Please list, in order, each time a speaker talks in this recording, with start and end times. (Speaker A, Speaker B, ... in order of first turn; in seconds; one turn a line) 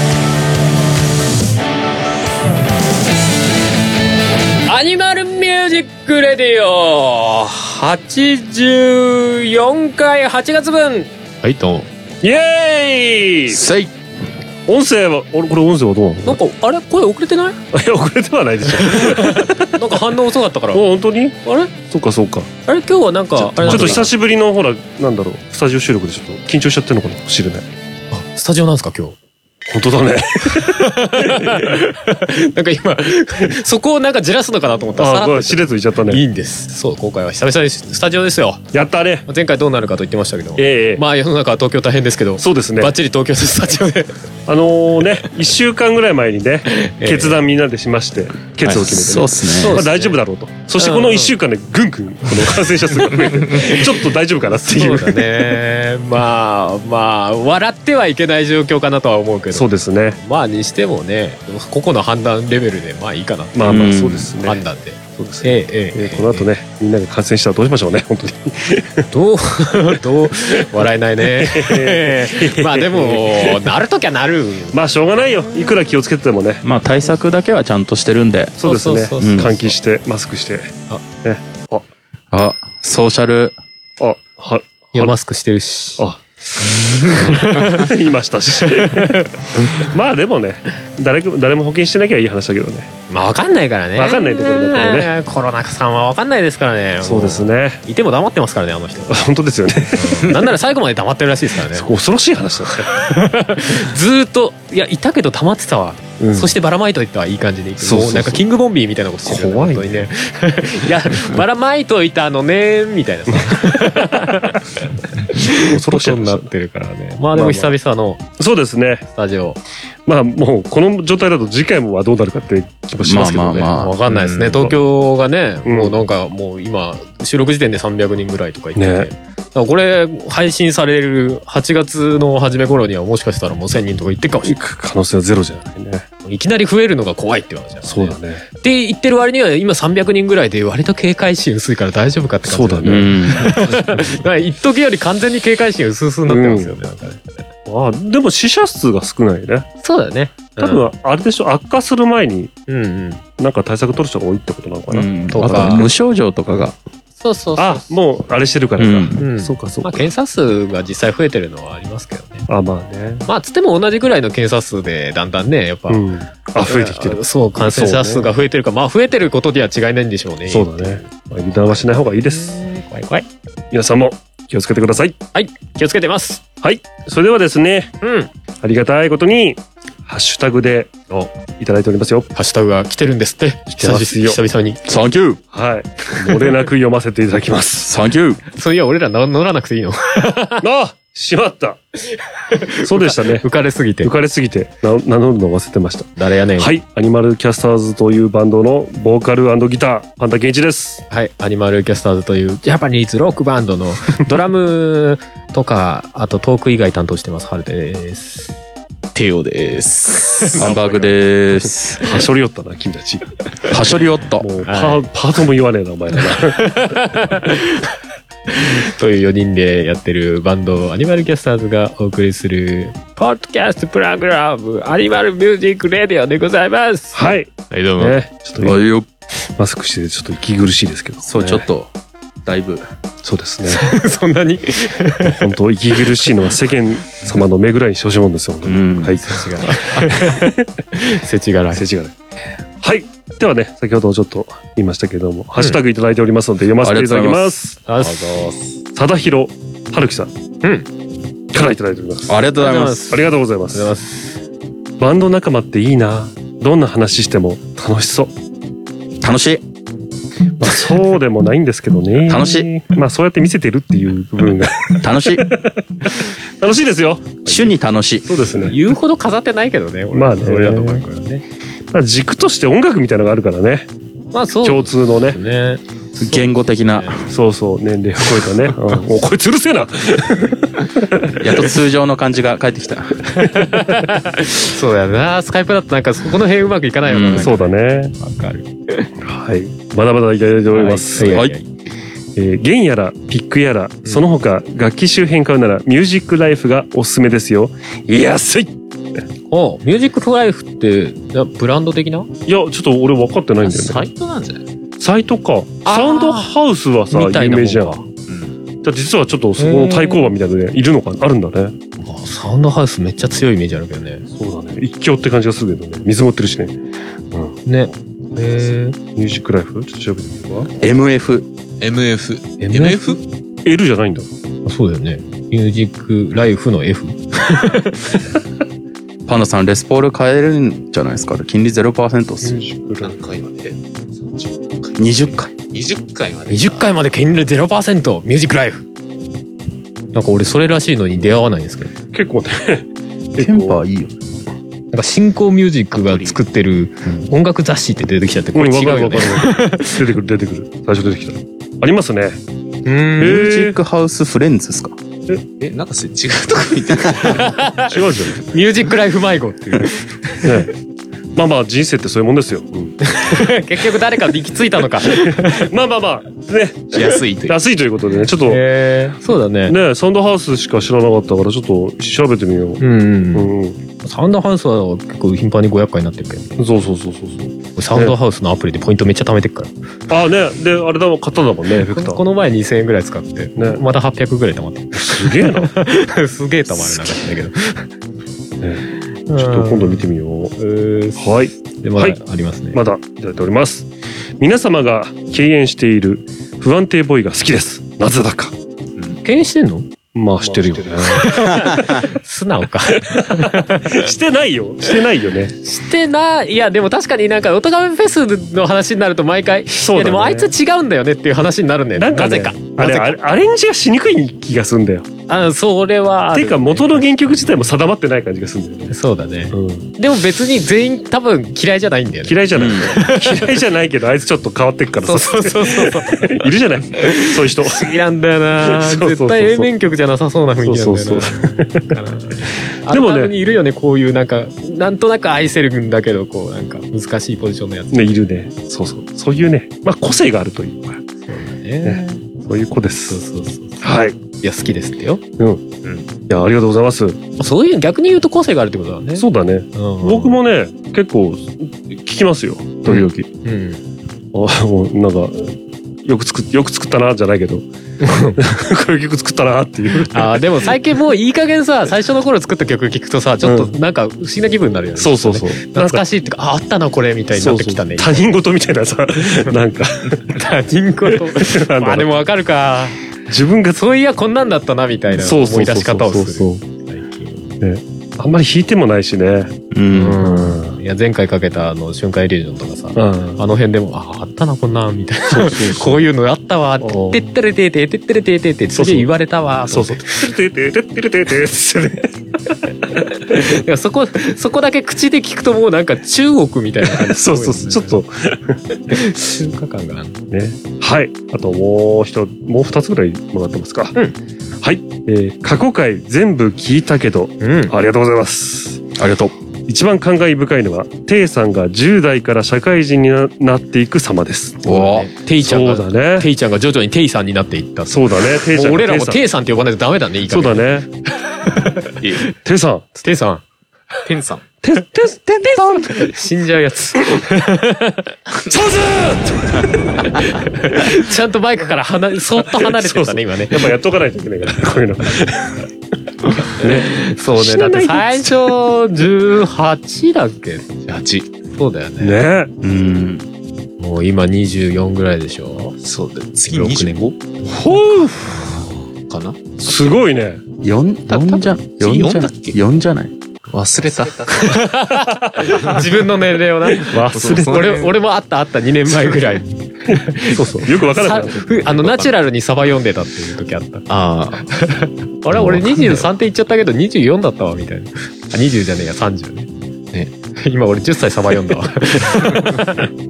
Speaker A: 4.7-11.9
Speaker B: 12.2-13.6
Speaker C: 13.5-13.9
Speaker B: 14.7-16.4
Speaker A: 16.2-17.6
Speaker B: 17.7-19.7
Speaker A: 18.8-20.8
Speaker B: 20.7-22.5
Speaker A: 21.4-21.7
Speaker A: 22.7-24.1
Speaker B: 23.4-27.7
Speaker A: 28.1-29.1
Speaker B: 29.7-31.8
Speaker A: 30.5-38.6
Speaker B: 35.0-36.2
Speaker B: 38.7-39.2
Speaker A: 39.3-44.1
Speaker B: 40.6-41.0
Speaker B: 42.4-42.9
Speaker B: 44.5-55.3
Speaker A: 46.7-47.4
Speaker C: 48.6-49.8
Speaker A: 49.5-50.2
Speaker A: 50.8-51.3
Speaker A: 53.5-53.9
Speaker A: 54.6-63.9
Speaker B: 59.5-60.2
Speaker B: 63.5-64.6
Speaker C: 63.6-64.3
Speaker A: 64.4-66.5
Speaker B: 65.2-69.0
Speaker A: 69.1-74.8
Speaker B: 71.3-73.7
Speaker B: 74.7-76.6
Speaker C: 76.6-78.6
Speaker B: 78.6-81.8
Speaker A: 78.6-79.7
Speaker C: 79.2-79.5
Speaker C: 82.3-83.6
Speaker B: 84.0-85.1
Speaker A: 84.9-86.0
Speaker B: 86.0-92.9
Speaker A: 86.8-87.9
Speaker A: 88.7-89.9
Speaker A: 93.1-99.3
Speaker B: 94.0-95.1
Speaker B: 97.0-97.8
Speaker B: 99.1-100.4
Speaker A: 99.9-101.9
Speaker B: 101.7-102.9
Speaker A: 102.9-114.6
Speaker B: 106.2-106.5
Speaker B: 107.8-108.4
Speaker B: 109.2-110.0
Speaker B: 113.3-113.9
Speaker A: 115.2-118.2
Speaker B: 115.5-116.5
Speaker B: 117.3-117.7
Speaker B: 118.4-119.0
Speaker A: 119.1-119.6
Speaker B: 120.0-123.7
Speaker C: 123.0-124.0
Speaker A: 123.8-134.5
Speaker B: 124.3-124.7
Speaker B: 125.6-125.9
Speaker B: 128.8-129.1
Speaker B: 134.4-136.0
Speaker A: 136.2-147.4
Speaker B: 137.8-138.4
Speaker B: 142.4-144.1
Speaker C: 142.8-143.6
Speaker B: 146.3-146.7
Speaker B: 147.7-149.7
Speaker A: 149.8-150.8
Speaker B: 150.6-152.5
Speaker A: 152.7-153.2
Speaker B: 153.4-155.9
Speaker C: 154.9-156.7
Speaker A: 155.3-155.9
Speaker A: 157.2-157.9
Speaker B: 157.6-160.0
Speaker C: 158.8-159.2
Speaker A: 159.2-162.4
Speaker B: 162.5-163.3
Speaker A: 163.3-166.0
Speaker B: 165.9-168.3
Speaker A: 166.6-173.2
Speaker B: 170.5-172.6
Speaker B: 173.7-175.2
Speaker A: 175.3-176.4
Speaker B: 176.6-177.9
Speaker A: 178.0-178.3
Speaker B: 178.6-180.9
Speaker B: 181.6-182.3
Speaker A: 182.3-184.8
Speaker B: 183.7-184.4
Speaker C: 184.8-185.4
Speaker B: 185.5-187.9
Speaker C: 187.8-188.4
Speaker A: 188.5-190.6
Speaker B: 190.6-191.8
Speaker A: 192.5-194.1
Speaker B: 192.8-193.5
Speaker B: 194.0-201.0
Speaker A: 196.2-196.7
Speaker A: 201.1-208.5
Speaker D: 209.2-209.4
Speaker A: 209.3-210.6
Speaker B: 210.5-211.1
Speaker C: 210.5-212.0
Speaker B: 212.0-213.3
Speaker C: 213.7-214.5
Speaker B: 214.4-217.1
Speaker A: 214.7-215.0
Speaker A: 216.5-217.8
Speaker A: 218.6-228.1
Speaker B: 227.1-228.8
Speaker C: 228.6-229.1
Speaker B: 229.6-231.6
Speaker C: 231.2-231.9
Speaker C: 232.4-232.8
Speaker B: 233.2-233.9
Speaker A: 233.7-235.4
Speaker B: 235.2-240.5
Speaker C: 238.6-239.2
Speaker A: 239.2-241.8
Speaker B: 241.7-242.1
Speaker B: 242.8-247.8
Speaker C: 246.8-247.5
Speaker A: 247.9-248.6
Speaker B: 248.9-250.3
Speaker B: 251.5-252.4
Speaker C: 252.3-253.1
Speaker A: 252.6-254.2
Speaker B: 253.1-253.9
Speaker B: 255.0-258.3
Speaker C: 259.2-259.6
Speaker B: 260.6-267.4
Speaker C: 262.3-262.7
Speaker C: 265.0-265.5
Speaker C: 267.4-268.3
Speaker B: 268.3-268.8
Speaker A: 268.6-271.4
Speaker B: 270.1-271.0
Speaker B: 271.9-273.9
Speaker A: 274.3-275.8
Speaker B: 274.6-275.4
Speaker C: 276.2-277.2
Speaker A: 276.4-277.2
Speaker B: 277.3-281.4
Speaker C: 281.4-283.5
Speaker A: 283.5-289.1
Speaker C: 287.1-287.5
Speaker B: 287.4-288.1
Speaker B: 289.2-291.4
Speaker A: 290.7-291.7
Speaker C: 291.2-291.6
Speaker B: 292.4-298.7
Speaker A: 299.5-302.3
Speaker B: 302.5-304.1
Speaker D: 303.6-304.6
Speaker B: 305.0-308.0
Speaker A: 305.8-306.5
Speaker A: 307.1-308.0
Speaker D: 308.3-308.5
Speaker B: 308.8-311.8
Speaker A: 309.6-310.3
Speaker A: 312.0-314.2
Speaker B: 314.3-316.8
Speaker A: 317.6-318.9
Speaker B: 319.1-320.7
Speaker C: 320.8-321.4
Speaker D: 321.8-323.2
Speaker A: 322.6-323.2
Speaker B: 323.6-324.3
Speaker A: 324.6-328.1
Speaker C: 329.2-332.6
Speaker B: 332.4-333.1
Speaker D: 333.0-336.9
Speaker C: 335.0-335.5
Speaker A: 336.5-338.8
Speaker A: 340.1-341.9
Speaker B: 342.1-343.8
Speaker C: 343.4-344.1
Speaker A: 344.9-350.0
Speaker D: 345.9-346.4
Speaker B: 348.5-352.4
Speaker A: 352.8-353.4
Speaker C: 353.2-355.0
Speaker B: 353.2-353.8
Speaker D: 355.6-357.6
Speaker A: 357.3-357.9
Speaker B: 357.9-358.4
Speaker A: 358.5-360.5
Speaker B: 360.4-360.7
Speaker B: 361.3-363.0
Speaker A: 363.0-365.7
Speaker B: 365.2-368.6
Speaker C: 367.0-367.5
Speaker D: 367.0-367.3
Speaker A: 368.5-369.8
Speaker B: 369.7-372.8
Speaker A: 372.8-373.5
Speaker B: 373.3-373.8
Speaker A: 374.0-376.6
Speaker B: 376.6-378.1
Speaker A: 377.8-379.7
Speaker B: 380.1-382.2
Speaker A: 381.8-387.9
Speaker B: 384.9-385.7
Speaker B: 388.6-390.5
Speaker A: 389.3-390.1
Speaker A: 390.6-391.3
Speaker B: 391.2-392.2
Speaker A: 391.8-392.8
Speaker B: 392.7-398.5
Speaker A: 399.2-399.9
Speaker B: 400.1-401.6
Speaker A: 400.8-404.1
Speaker B: 402.9-405.5
Speaker A: 405.6-413.1
Speaker B: 409.8-410.5
Speaker B: 411.9-415.1
Speaker A: 415.3-416.9
Speaker B: 416.3-418.9
Speaker A: 418.9-422.4
Speaker B: 419.5-419.9
Speaker B: 422.2-427.9
Speaker C: 422.5-422.9
Speaker A: 422.9-423.4
Speaker A: 425.1-426.5
Speaker A: 427.0-438.1
Speaker B: 428.6-429.7
Speaker B: 430.6-431.9
Speaker B: 432.9-433.3
Speaker B: 437.9-441.0
Speaker A: 441.2-442.2
Speaker B: 441.8-443.2
Speaker A: 443.1-445.2
Speaker B: 443.8-444.1
Speaker B: 445.4-445.6
Speaker B: 446.3-447.2
Speaker A: 447.4-450.4
Speaker B: 449.1-453.3
Speaker A: 452.9-453.8
Speaker B: 454.3-457.6
Speaker A: 458.0-458.4
Speaker B: 458.3-460.7
Speaker A: 460.1-468.2
Speaker B: 463.4-463.7
Speaker B: 465.0-466.0
Speaker B: 467.4-470.4
Speaker A: 470.3-472.9
Speaker B: 471.3-472.1
Speaker B: 473.3-473.8
Speaker A: 473.7-477.4
Speaker B: 475.1-476.6
Speaker B: 477.6-479.6
Speaker C: 479.7-480.2
Speaker A: 479.9-490.1
Speaker B: 480.2-480.8
Speaker B: 482.9-483.4
Speaker B: 485.3-486.0
Speaker B: 486.8-487.2
Speaker B: 488.7-489.1
Speaker B: 489.7-492.1
Speaker A: 493.2-498.0
Speaker B: 496.8-498.6
Speaker A: 498.9-500.2
Speaker B: 500.3-503.9
Speaker B: 504.6-508.8
Speaker A: 507.4-507.7
Speaker C: 509.0-509.3
Speaker B: 509.7-514.6
Speaker C: 514.6-515.1
Speaker A: 514.7-520.7
Speaker B: 515.4-516.3
Speaker B: 517.9-519.2
Speaker B: 520.3-520.9
Speaker A: 521.5-521.8
Speaker B: 522.4-522.8
Speaker A: 523.0-523.4
Speaker D: 524.0-524.4
Speaker B: 524.6-525.7
Speaker C: 525.5-525.8
Speaker A: 525.5-528.0
Speaker B: 528.5-529.7
Speaker A: 530.0-533.7
Speaker B: 532.3-535.6
Speaker B: 536.6-538.5
Speaker A: 536.6-540.7
Speaker D: 540.9-541.3
Speaker A: 541.5-542.1
Speaker B: 542.0-542.5
Speaker C: 542.6-543.2
Speaker A: 543.8-545.8
Speaker D: 545.8-547.2
Speaker A: 546.5-547.1
Speaker B: 547.5-548.1
Speaker A: 547.6-548.1
Speaker D: 548.4-550.0
Speaker B: 549.6-550.4
Speaker C: 550.6-553.1
Speaker D: 551.1-552.6
Speaker D: 553.5-554.8
Speaker A: 554.4-563.9
Speaker B: 555.2-555.5
Speaker B: 556.9-557.7
Speaker D: 557.1-557.9
Speaker B: 559.9-561.9
Speaker D: 563.9-564.5
Speaker A: 564.4-569.5
Speaker D: 565.3-566.1
Speaker A: 570.4-572.9